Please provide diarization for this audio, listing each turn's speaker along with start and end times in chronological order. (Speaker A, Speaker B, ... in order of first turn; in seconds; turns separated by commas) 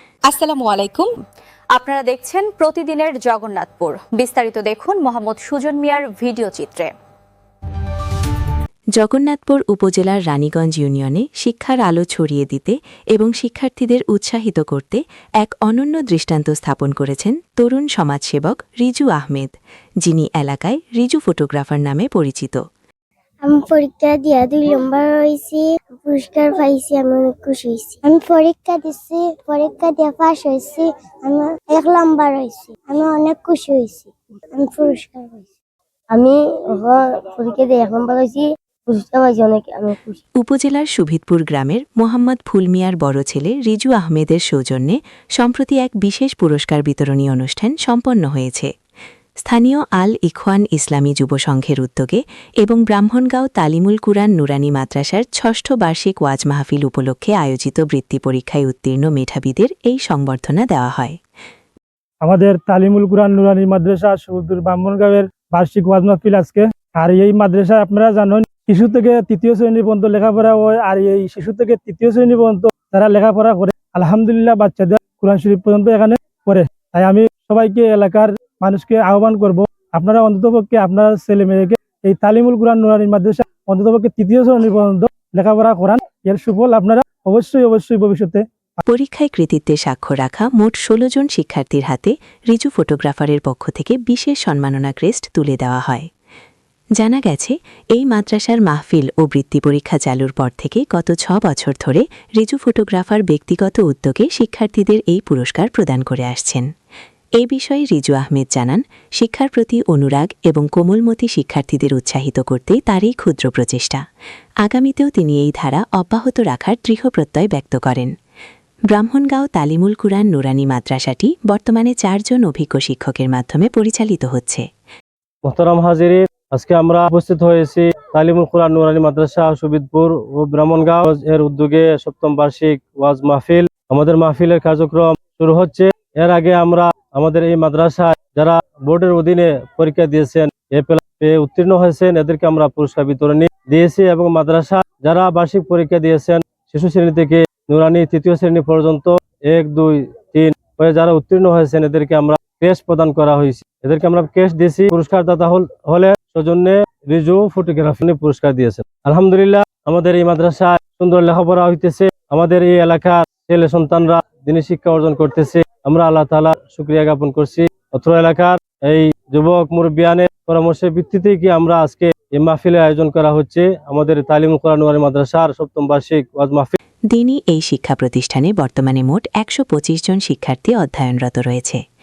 Speaker A: 0.3-1.1, Speaker A: 1.8-6.9, Speaker B: 9.0-19.5, Speaker B: 20.1-22.6, Speaker C: 23.4-35.5, Speaker C: 36.1-40.2, Speaker B: 40.4-48.7, Speaker B: 49.5-61.2, Speaker D: 62.2-88.5, Speaker B: 88.8-96.1, Speaker B: 97.0-106.7, Speaker B: 107.4-114.0, Speaker B: 114.7-118.1, Speaker B: 118.9-124.7, Speaker E: 125.5-176.7, Speaker B: 177.1-181.8